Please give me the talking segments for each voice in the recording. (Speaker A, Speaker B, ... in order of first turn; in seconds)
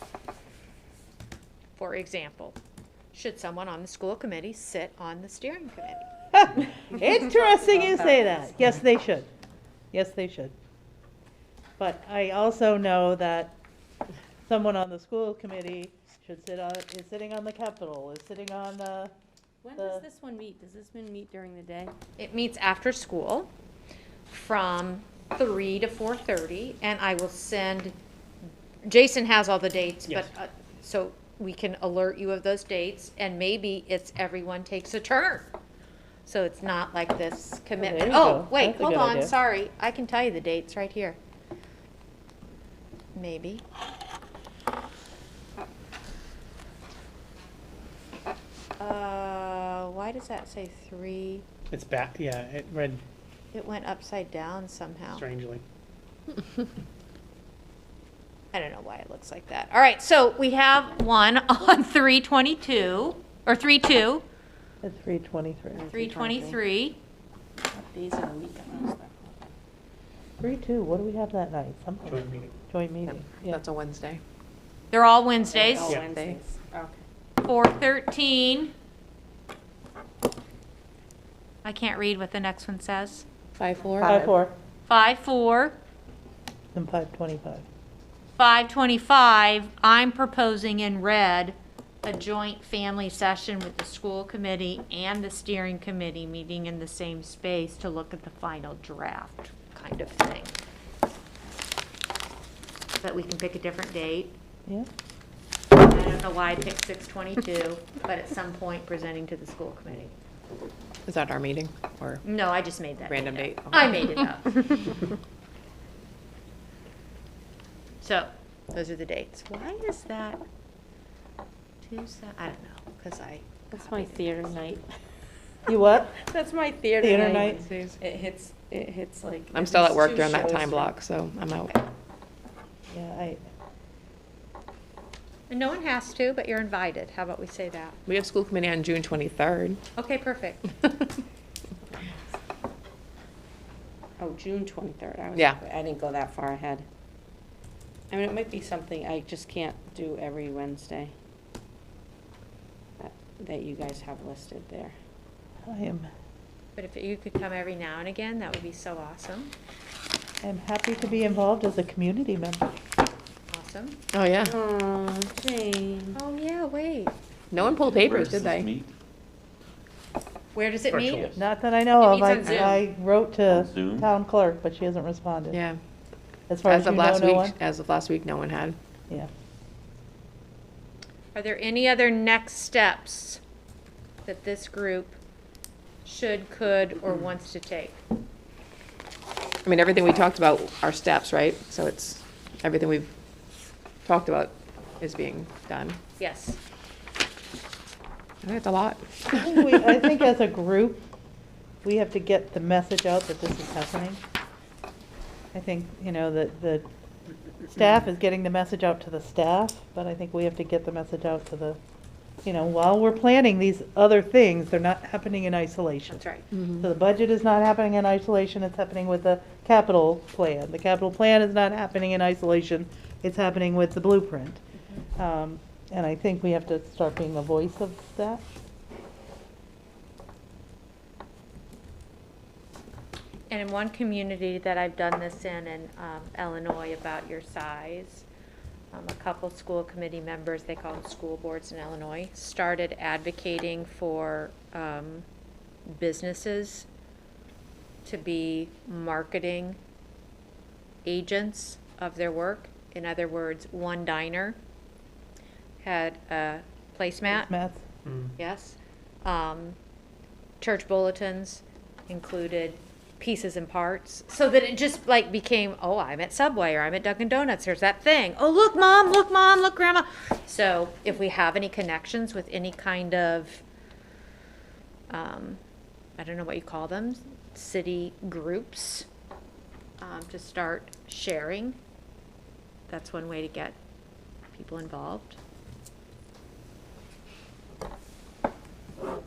Speaker A: 1.8-2.6, 3.1-6.9, 22.2-23.5, 24.3-27.9, 28.8-35.5, 36.2-41.2, 43.1-43.6, 48.8-51.4, 53.5-55.3, 58.5-64.2, 65.9-67.0, 74.9-76.0, 77.4-78.7, 81.6-83.2, 84.8-85.8, 88.4-100.5, 103.0-104.3, 105.8-110.2, 112.2-114.9, 118.0-120.4, 121.8-124.2, 135.5-138.0, 139.9-140.7, 156.8-159.5, 163.5-164.0, 166.1-167.1, 170.5-171.4, 172.0-172.8, 181.3-183.4, 184.2-185.2, 186.0-188.0, 196.2-196.6, 216.1-216.5, 233.5-238.2, 238.9-245.2, 245.9-246.9, 248.0-249.8, 251.0-254.6, 255.8-257.5, 258.4-259.8, 260.6-273.6, 275.1-275.6, 276.2-279.1, 280.0-281.8, 282.9-283.8, 284.5-285.4
Speaker B: 6.3-9.3, 9.9-10.5, 11.8-13.6, 14.5-19.1, 19.8-20.0, 37.8-39.3, 64.8-65.8, 70.4-73.6, 84.0-84.5, 86.7-87.6, 125.7-126.2, 127.0-127.6, 132.9-133.4, 155.6-156.1, 160.4-162.7, 171.3-175.6, 176.5-177.5, 199.3-201.0, 201.8-204.2, 205.5-206.8, 207.7-211.8, 212.4-216.2, 216.8-224.6, 225.2-228.4, 257.3-257.9
Speaker C: 7.1-8.5, 19.6-21.9, 65.7-66.6, 67.7-69.5, 75.5-77.0, 123.7-124.8, 126.3-130.9, 144.2-146.8, 148.1-151.1, 153.0-154.9, 164.4-166.2
Speaker D: 51.7-53.0, 55.1-55.6, 72.0-72.5, 75.8-76.1, 258.1-258.3
Speaker E: 73.1-74.2, 76.1-76.4, 83.6-84.3, 111.0-112.2, 113.0-114.3, 127.6-128.0, 129.5-131.8, 138.1-139.8, 164.1-164.6, 167.5-168.7, 175.5-175.8, 176.7-178.8, 189.6-193.1, 194.0-196.0, 198.4-199.9, 216.5-216.8
Speaker F: 167.6-168.9, 170.9-171.4, 173.5-174.1